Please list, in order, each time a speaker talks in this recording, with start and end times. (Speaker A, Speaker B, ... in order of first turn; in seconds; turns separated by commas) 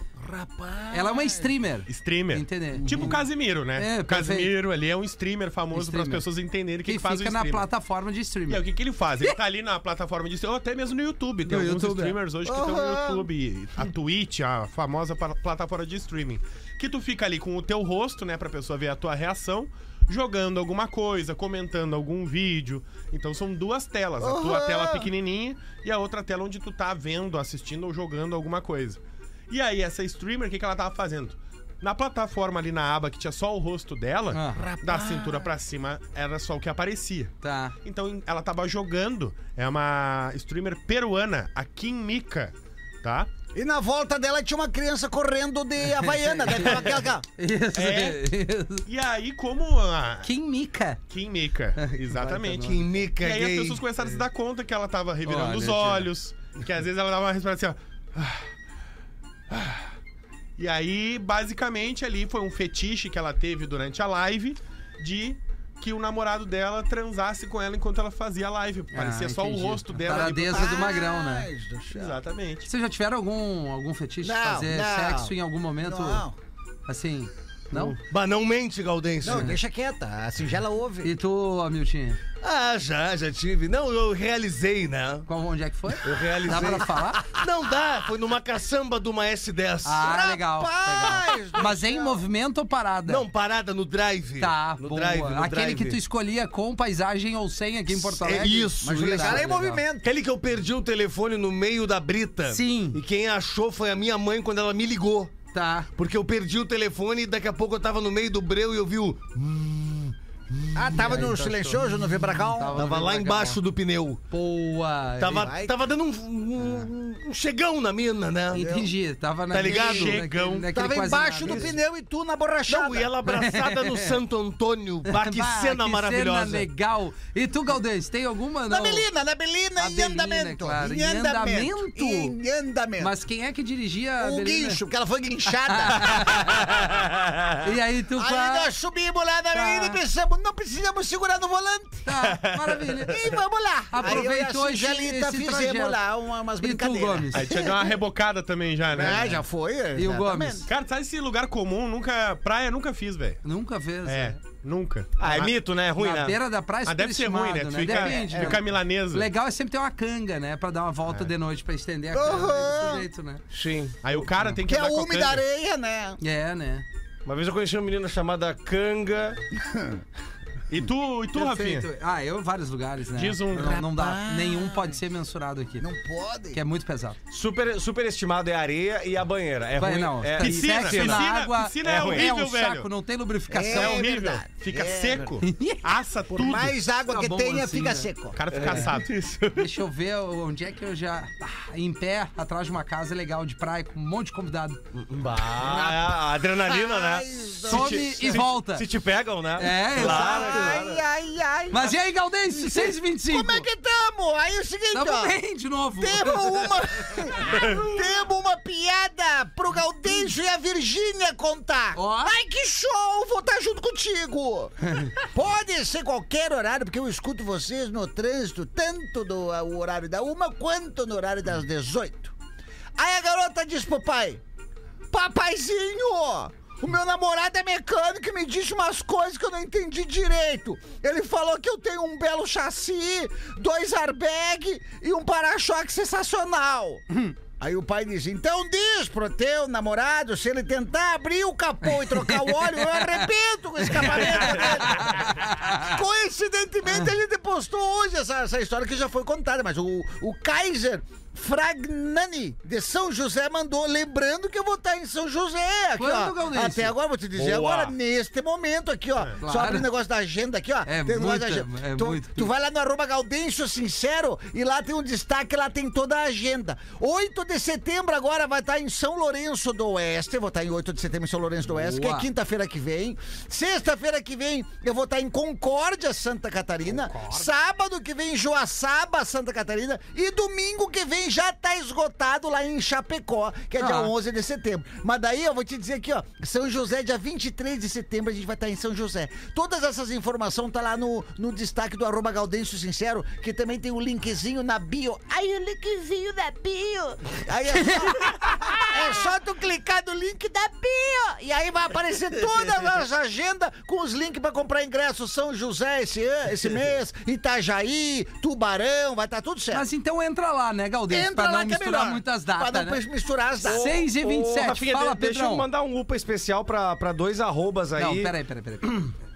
Speaker A: 0.2-1.5, Speaker B: 0.9-3.2, Speaker C: 1.9-7.7, Speaker A: 2.8-3.2, Speaker B: 3.8-4.5, Speaker B: 5.7-6.2, Speaker B: 6.9-8.7, Speaker C: 8.5-29.0, Speaker B: 11.5-12.2, Speaker A: 12.4-13.3, Speaker A: 24.2-25.1, Speaker C: 29.5-43.3, Speaker B: 34.3-34.6, Speaker A: 34.5-35.5, Speaker B: 37.4-37.8, Speaker A: 43.5-47.2, Speaker B: 46.0-48.8, Speaker C: 47.7-48.2, Speaker C: 48.9-50.3, Speaker B: 50.2-51.0, Speaker C: 51.1-58.5, Speaker B: 51.8-52.8, Speaker D: 52.6-53.8, Speaker B: 55.2-56.1, Speaker C: 59.5-59.9, Speaker C: 60.6-71.0, Speaker B: 68.9-71.5, Speaker A: 70.1-72.2, Speaker C: 71.9-72.7, Speaker B: 72.7-76.2, Speaker A: 74.2-76.4, Speaker B: 76.9-78.0, Speaker D: 77.7-79.6, Speaker A: 79.2-81.1, Speaker B: 79.3-79.6, Speaker B: 81.0-82.2, Speaker D: 82.4-85.3, Speaker B: 85.3-87.3, Speaker D: 86.0-90.1, Speaker B: 89.8-93.3, Speaker A: 90.0-92.2, Speaker D: 93.1-96.0, Speaker B: 94.4-99.8, Speaker D: 97.9-105.3, Speaker A: 98.3-100.1, Speaker B: 102.5-103.0, Speaker B: 105.5-105.9, Speaker D: 106.0-111.1, Speaker A: 110.7-112.9, Speaker B: 110.9-113.6, Speaker D: 112.7-114.2, Speaker B: 114.3-115.5, Speaker D: 115.2-118.6, Speaker A: 115.3-115.7, Speaker B: 118.5-121.7, Speaker A: 118.5-118.9, Speaker D: 119.5-120.3, Speaker A: 119.6-120.1, Speaker C: 119.7-120.7, Speaker A: 120.7-123.1, Speaker D: 121.4-121.7, Speaker D: 122.7-126.7, Speaker B: 123.3-124.2, Speaker B: 125.1-129.1, Speaker A: 128.7-133.1, Speaker B: 129.8-132.3, Speaker B: 133.0-134.8, Speaker A: 134.2-137.1, Speaker B: 135.7-136.8, Speaker D: 136.8-137.6, Speaker B: 137.6-138.7, Speaker A: 138.2-142.1, Speaker B: 139.5-140.0, Speaker B: 142.1-143.3, Speaker D: 142.2-143.0, Speaker A: 143.1-148.0, Speaker B: 143.9-146.0, Speaker B: 146.6-147.5, Speaker C: 147.3-149.4, Speaker A: 148.9-150.7, Speaker B: 150.0-150.7, Speaker C: 150.7-153.4, Speaker B: 153.4-154.4, Speaker C: 154.1-155.5, Speaker D: 155.2-156.4, Speaker B: 156.0-163.4, Speaker C: 156.9-159.3, Speaker D: 157.9-158.5, Speaker A: 162.1-163.1, Speaker D: 163.5-164.0, Speaker C: 164.0-165.4, Speaker A: 164.6-166.2, Speaker B: 166.2-166.8, Speaker D: 167.2-169.4, Speaker A: 169.6-170.0, Speaker C: 170.7-171.9, Speaker B: 171.3-175.9, Speaker C: 173.2-173.8, Speaker A: 173.5-175.0, Speaker A: 175.8-176.6, Speaker B: 176.5-177.2, Speaker D: 177.3-181.2, Speaker B: 179.8-184.0, Speaker C: 180.4-182.9, Speaker D: 181.8-182.3, Speaker A: 183.5-185.4, Speaker C: 183.7-186.8, Speaker B: 185.4-185.9, Speaker A: 186.3-188.4, Speaker B: 187.1-188.1, Speaker C: 188.3-189.1, Speaker D: 188.5-189.7, Speaker B: 189.6-194.8, Speaker D: 194.9-201.0, Speaker A: 195.6-198.5, Speaker B: 197.7-198.9, Speaker B: 199.6-200.8, Speaker A: 199.9-201.9, Speaker B: 201.7-203.7, Speaker A: 202.5-205.4, Speaker B: 204.9-207.2, Speaker A: 206.0-222.3, Speaker B: 211.9-212.3, Speaker B: 214.9-215.1, Speaker A: 223.0-224.4, Speaker A: 225.1-237.0, Speaker A: 237.6-309.9, Speaker B: 241.9-243.2, Speaker B: 243.8-245.9, Speaker B: 256.0-256.9, Speaker C: 257.4-257.9, Speaker B: 259.4-259.9, Speaker B: 260.9-262.5, Speaker B: 271.7-272.3, Speaker B: 277.1-277.4, Speaker B: 283.8-284.1, Speaker B: 309.7-313.0, Speaker A: 311.1-313.9, Speaker B: 313.6-315.7, Speaker D: 313.6-318.3, Speaker B: 318.0-319.1